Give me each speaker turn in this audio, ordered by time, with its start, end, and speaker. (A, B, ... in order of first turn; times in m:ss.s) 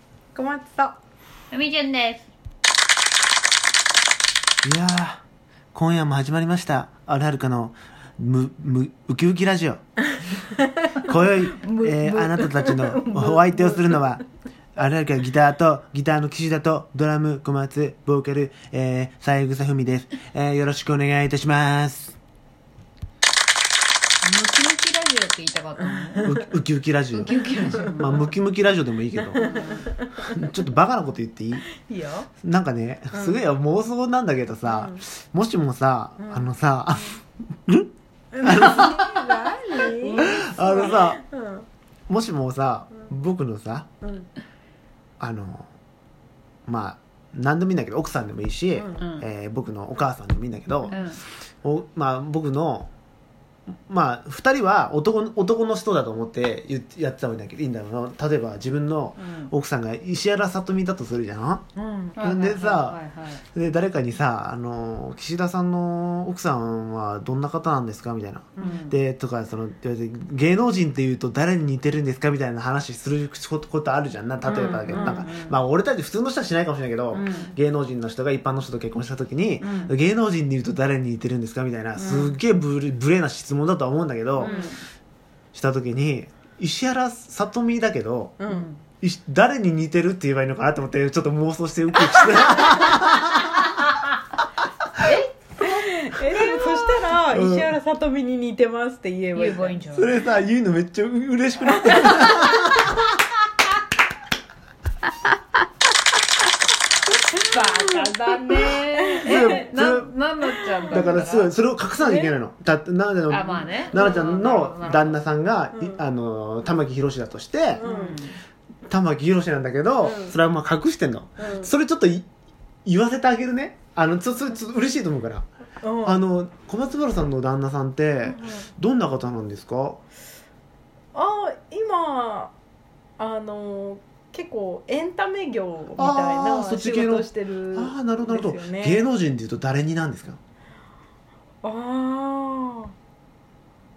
0:00.3-0:01.0 A
0:01.5-0:02.2 B
0:04.6-0:05.2 C
0:05.7-0:09.8 C
0:11.0-0:14.2 C
0:11.6-0:14.0 B
0:14.8-0:22.2 C
0:24.2-0:26.4 B
0:25.9-0:26.4 A
0:26.2-0:29.5 C
0:27.1-0:28.3 B
0:29.3-0:29.9 B
0:29.4-0:30.4 A
0:30.2-0:31.7 C
0:31.8-0:32.3 A
0:32.4-0:39.3 C
0:33.1-0:33.4 A
0:34.7-0:35.0 A
0:36.2-0:36.4 A
0:38.3-0:41.6 A
0:40.0-0:40.4 B
0:40.2-0:41.2 C
0:42.1-0:43.9 C
0:44.0-0:44.3 A
0:45.2-0:45.7 C
0:46.7-0:51.0 C
0:48.8-0:49.0 A
0:49.0-0:49.2 B
0:50.9-0:51.2 B
0:51.6-0:52.9 C
0:53.9-1:01.6 C
0:59.2-0:59.5 B
1:01.8-1:02.1 A
1:02.2-1:03.4 B
1:02.2-1:03.0 C
1:03.5-1:24.6 C
1:08.6-1:09.0 B
1:14.4-1:15.6 B
1:14.9-1:15.2 A
1:17.1-1:17.5 B
1:19.6-1:19.9 B
1:21.9-1:22.4 B
1:24.4-1:24.8 B
1:24.4-1:24.7 A
1:25.5-1:28.4 C
1:28.4-1:28.6 A
1:28.5-1:28.8 B
1:29.0-1:33.7 C
1:35.0-1:37.1 B
1:35.6-1:39.8 A
1:37.3-1:37.7 C
1:39.3-1:40.2 B
1:39.9-1:43.1 C
1:41.9-1:42.1 A
1:47.3-1:51.5 B
1:47.6-1:49.6 A
1:49.2-1:50.1 C
1:50.6-1:51.1 A
1:50.9-1:57.8 C
1:52.0-1:52.3 A
1:53.3-1:55.2 B
1:55.8-1:56.0 A
1:57.8-1:58.4 A
1:57.8-1:58.3 B
1:58.9-2:02.3 C
2:00.0-2:00.4 A
2:01.4-2:01.7 A
2:02.8-2:05.4 C
2:05.8-2:06.2 A
2:06.0-2:10.0 C
2:11.1-2:12.5 A
2:13.2-2:19.0 A
2:16.0-2:20.4 C
2:21.6-2:22.9 A